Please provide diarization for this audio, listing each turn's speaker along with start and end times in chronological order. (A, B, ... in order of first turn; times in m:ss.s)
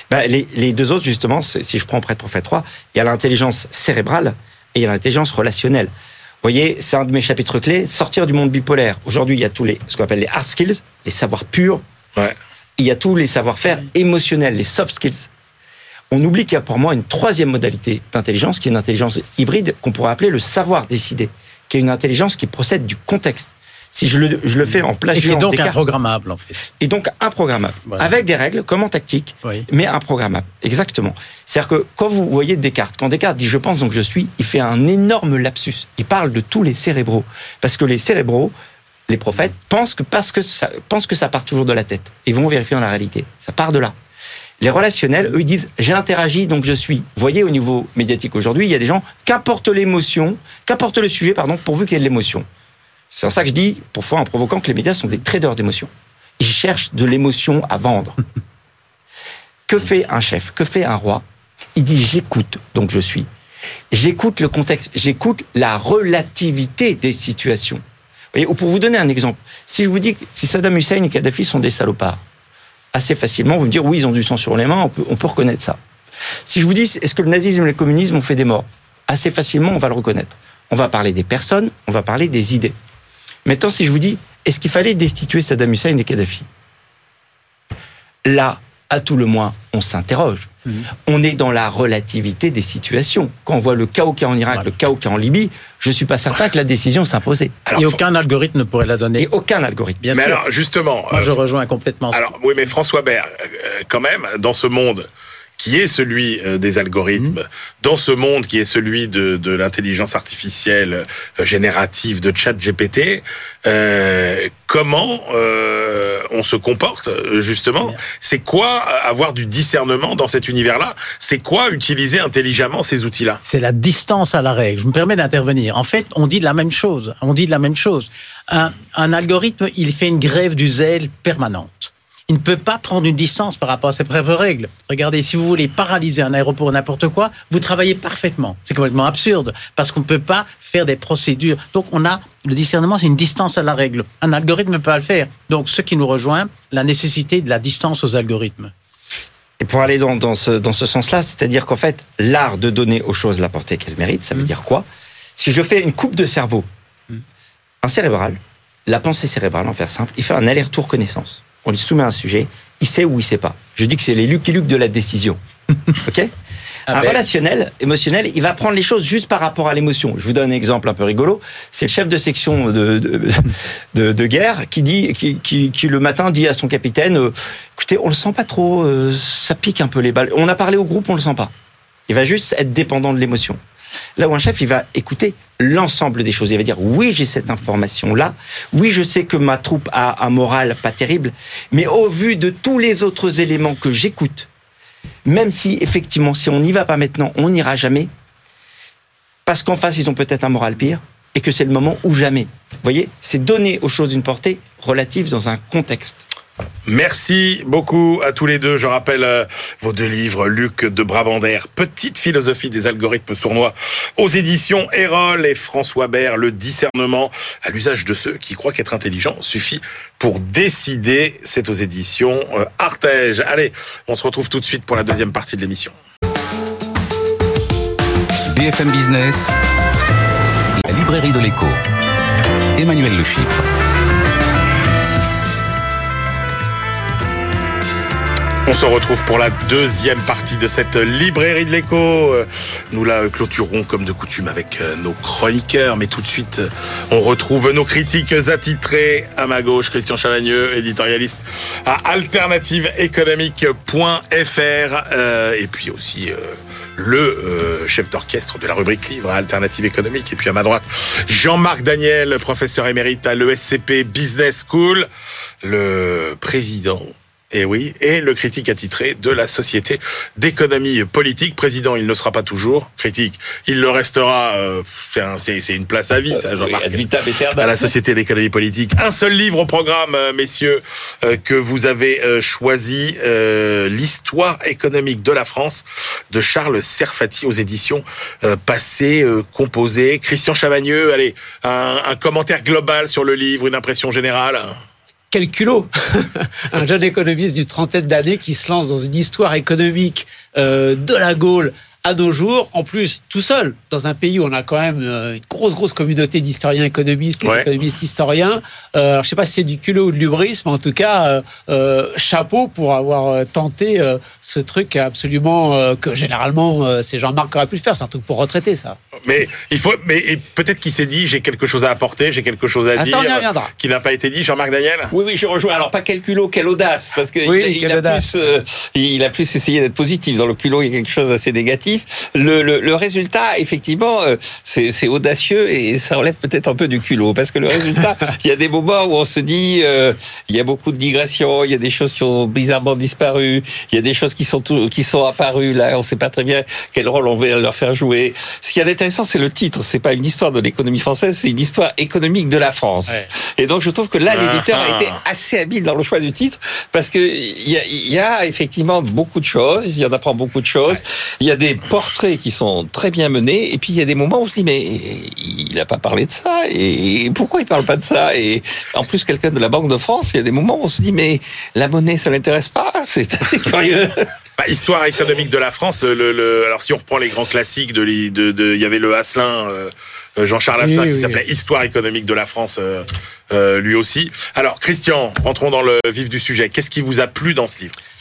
0:00.1-0:05.9 A
0:06.4-0:11.8 A
0:12.8-0:15.3 A
0:16.1-0:25.8 A
0:25.1-0:26.7 B
0:26.8-0:38.5 A
0:39.1-0:44.0 A
0:44.6-0:52.5 A
0:53.1-0:58.2 A
0:59.7-1:01.2 A
1:01.8-1:03.3 A
1:03.9-1:07.8 A
1:08.3-1:12.2 A
1:12.9-1:15.8 A
1:16.4-1:22.7 A
1:23.4-1:26.5 A
1:28.2-1:30.5 A
1:31.0-1:37.6 A
1:37.7-1:38.0 C
1:37.7-1:39.3 B
1:39.2-1:40.0 A
1:40.0-1:40.4 B
1:40.1-1:41.3 C
1:41.1-1:42.3 B
1:42.1-1:45.1 C
1:45.6-2:03.4 C
2:03.4-2:28.7 B
2:29.6-2:36.7 A
2:37.8-2:45.4 A
2:46.0-2:46.3 A
2:46.9-2:47.2 B
2:46.9-3:01.5 A
3:02.1-3:03.6 A
3:04.2-3:14.5 A
3:15.2-3:18.1 A
3:19.4-3:26.2 A
3:26.9-3:45.9 C
3:48.5-3:49.5 D
3:50.8-3:51.8 D
3:52.8-3:53.6 D
3:58.6-4:25.1 C
4:25.6-4:37.0 C
4:36.3-4:37.9 E
4:37.6-4:54.8 C
4:55.3-5:19.0 F
5:07.4-5:07.7 C
5:19.2-5:25.1 C
5:23.0-5:23.7 F
5:25.1-6:14.3 E
5:27.4-5:28.2 F
5:54.3-5:55.2 C
6:14.6-6:27.9 C
6:20.8-6:21.4 F